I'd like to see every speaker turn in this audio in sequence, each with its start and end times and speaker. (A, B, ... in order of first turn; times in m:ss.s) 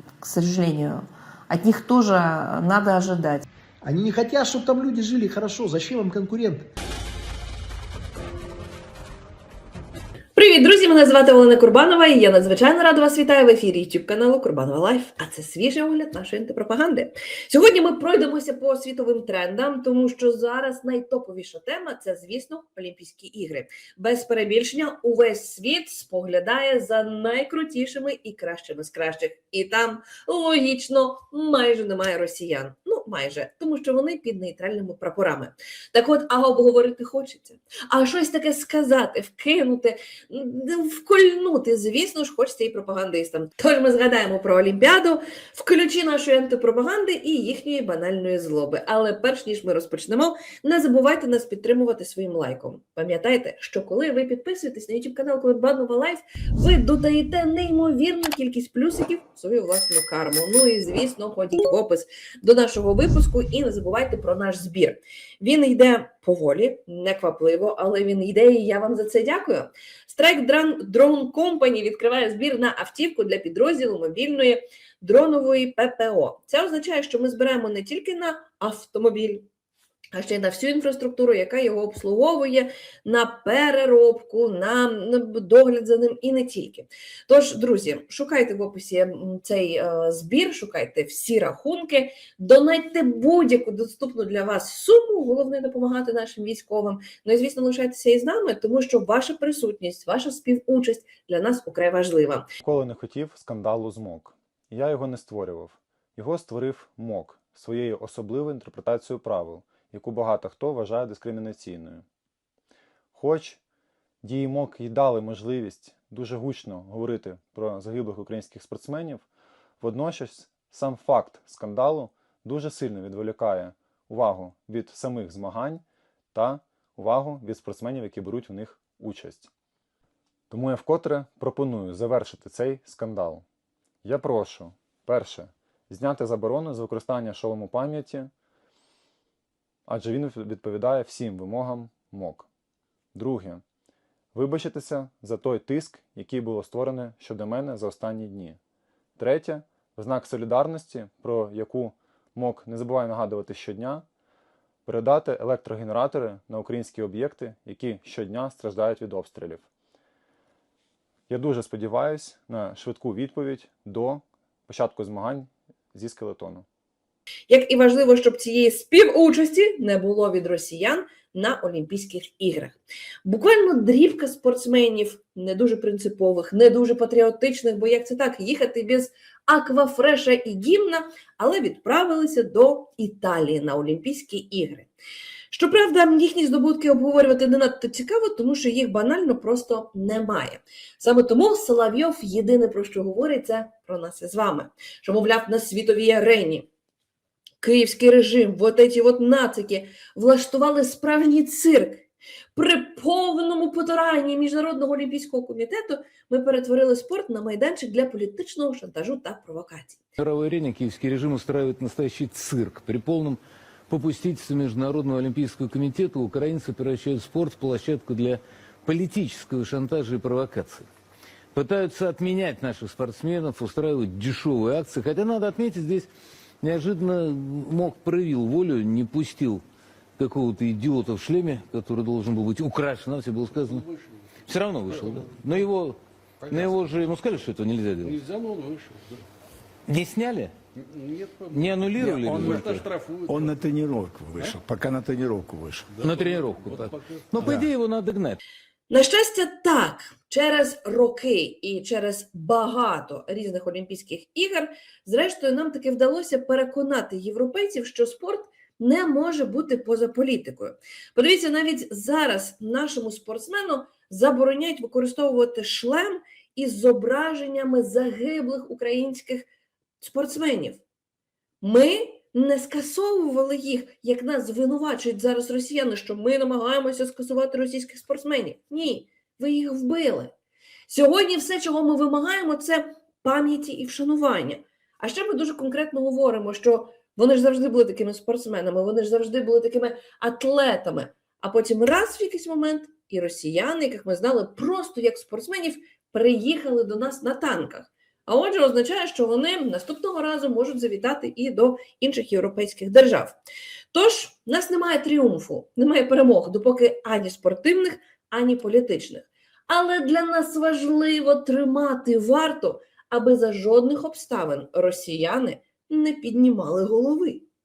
0:00.2-0:03.4 A
0:03.8-0:06.7 B
0:10.4-1:19.5 C
1:20.1-1:42.5 C
1:42.6-1:52.0 D
1:53.1-1:53.6 D
1:54.2-1:59.2 D
1:59.8-2:09.5 D
2:10.5-2:13.4 D
2:14.0-2:18.3 D
2:19.9-2:22.5 D
2:23.1-2:23.6 D
2:24.3-2:28.6 D
2:29.2-2:34.0 D
2:34.9-2:39.7 D
2:41.3-2:46.7 D
2:47.5-3:04.9 C
3:05.5-3:16.7 C
3:17.6-3:30.0 C
3:30.2-3:40.8 E
3:41.5-3:46.1 E
3:46.6-3:49.6 E
3:50.2-3:53.9 E
3:53.5-3:54.0 F
3:54.4-3:58.2 E
3:54.7-3:55.4 F
3:56.5-3:56.9 F
3:58.0-3:59.2 F
3:59.9-4:00.5 E
4:01.0-4:03.4 F
4:01.5-4:02.9 E
4:02.1-4:02.6 G
4:03.2-4:05.9 G
4:06.0-4:07.6 F
4:06.0-4:08.4 E
4:08.9-4:29.5 C
4:30.0-4:30.8 C
4:31.6-4:40.3 C
4:40.9-5:03.4 C
5:03.9-5:17.5 C